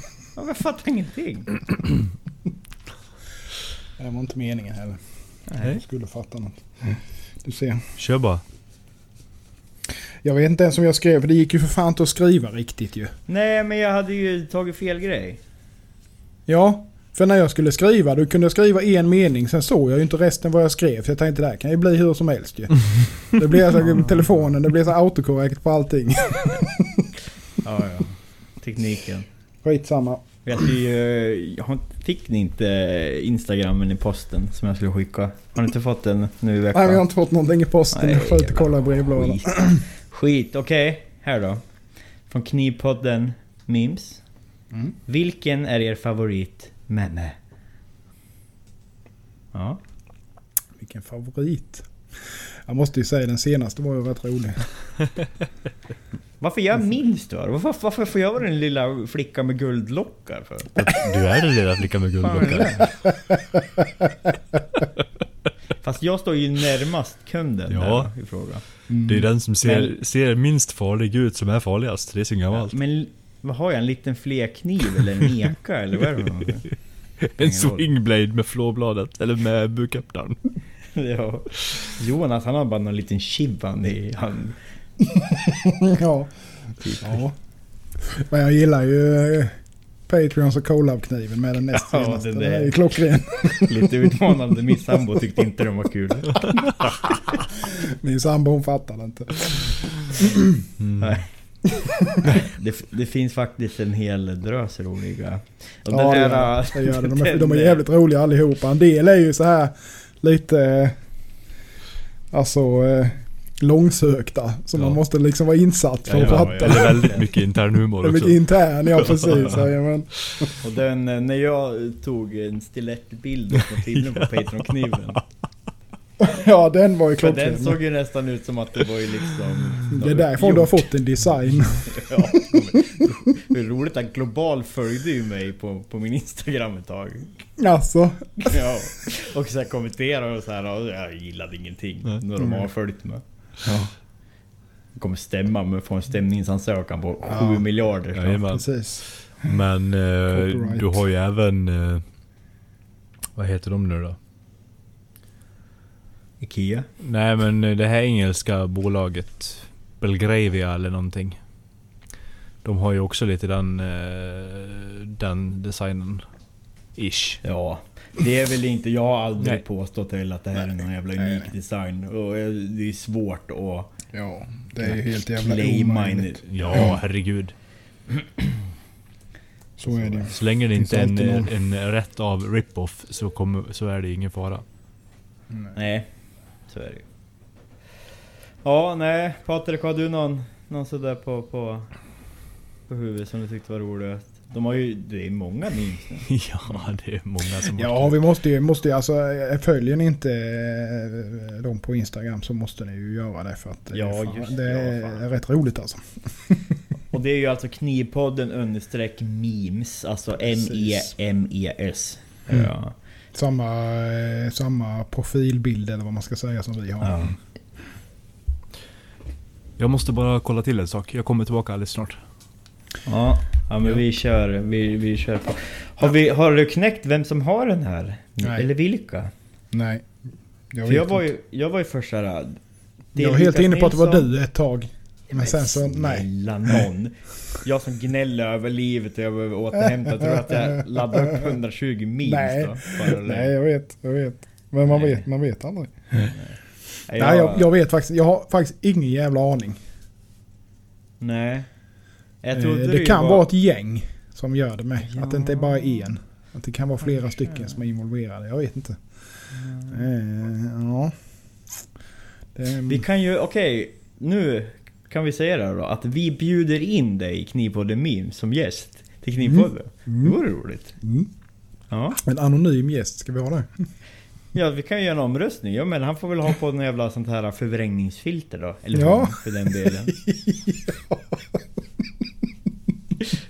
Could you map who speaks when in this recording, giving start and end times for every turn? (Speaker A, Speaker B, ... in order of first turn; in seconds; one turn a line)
Speaker A: 0.3-1.6
Speaker B: 4.0-5.0
Speaker A: 5.5-5.8
Speaker B: 5.6-7.9
Speaker C: 8.0-8.4
Speaker B: 10.2-13.1
Speaker A: 13.3-15.4
Speaker B: 16.5-27.1
Speaker A: 23.9-24.3
Speaker A: 27.6-29.3
Speaker B: 29.6-30.2
Speaker A: 30.4-37.0
Speaker B: 36.7-39.8
Speaker A: 37.9-41.6
Speaker A: 42.3-44.2
Speaker A: 45.1-47.4
Speaker A: 49.5-49.8
Speaker B: 50.8-54.7
Speaker A: 56.4-60.8
Speaker C: 60.8-62.9
Speaker A: 62.2-62.9
Speaker A: 65.8-68.6
Speaker C: 67.7-68.1
Speaker B: 68.9-69.3
Speaker C: 69.0-72.8
Speaker A: 69.6-69.9
Speaker A: 72.5-76.7
Speaker C: 77.2-80.6
Speaker A: 77.4-77.9
Speaker A: 80.9-84.6
Speaker B: 85.1-87.3
Speaker A: 86.8-87.2
Speaker B: 88.0-94.1
Speaker A: 91.8-97.1
Speaker B: 97.6-100.7
Speaker C: 100.8-101.1
Speaker A: 101.0-101.3
Speaker B: 101.8-102.3
Speaker A: 102.3-107.8
Speaker B: 105.9-111.0
Speaker B: 112.3-117.2
Speaker A: 116.1-117.3
Speaker C: 116.1-119.5
Speaker B: 118.0-120.5
Speaker A: 120.6-125.2
Speaker B: 126.2-127.8
Speaker A: 127.2-130.8
Speaker B: 129.9-132.8
Speaker A: 131.9-137.4
Speaker B: 137.6-138.8
Speaker A: 138.4-143.2
Speaker B: 142.4-142.7
Speaker B: 143.6-143.9
Speaker A: 144.9-148.4
Speaker B: 147.3-147.7
Speaker C: 148.1-152.0
Speaker B: 148.5-149.5
Speaker B: 150.3-151.0
Speaker C: 153.4-154.2
Speaker A: 156.4-156.9
Speaker C: 157.0-161.4
Speaker C: 162.6-166.2
Speaker C: 167.0-167.4
Speaker A: 167.4-174.0
Speaker B: 171.2-171.5
Speaker B: 174.1-177.0
Speaker A: 174.8-177.0
Speaker C: 176.5-177.5
Speaker B: 179.8-181.5
Speaker C: 180.1-184.6
Speaker A: 185.7-186.1
Speaker A: 186.7-187.0
Speaker A: 188.6-191.9
Speaker A: 192.9-196.3
Speaker C: 196.3-198.2
Speaker B: 197.7-206.8
Speaker A: 203.9-205.2
Speaker A: 207.1-212.9
Speaker B: 210.5-211.1
Speaker B: 213.3-217.3
Speaker A: 217.0-217.4
Speaker C: 219.8-222.2
Speaker A: 223.1-229.3
Speaker B: 228.4-228.7
Speaker B: 229.7-230.1
Speaker B: 230.7-231.3
Speaker A: 230.8-232.6
Speaker A: 233.1-234.3
Speaker B: 233.2-236.8
Speaker A: 235.3-243.5
Speaker B: 240.2-240.8
Speaker B: 242.2-246.3
Speaker A: 244.9-245.2
Speaker A: 246.3-247.7
Speaker B: 247.2-249.8
Speaker A: 251.2-251.7
Speaker A: 252.4-253.5
Speaker B: 252.5-261.1
Speaker A: 255.0-256.1
Speaker A: 259.6-259.9
Speaker B: 262.6-263.0
Speaker A: 262.9-271.0
Speaker B: 269.5-270.4
Speaker B: 271.0-271.3
Speaker A: 271.9-272.2
Speaker B: 272.2-273.9
Speaker A: 274.5-280.1
Speaker B: 278.9-281.6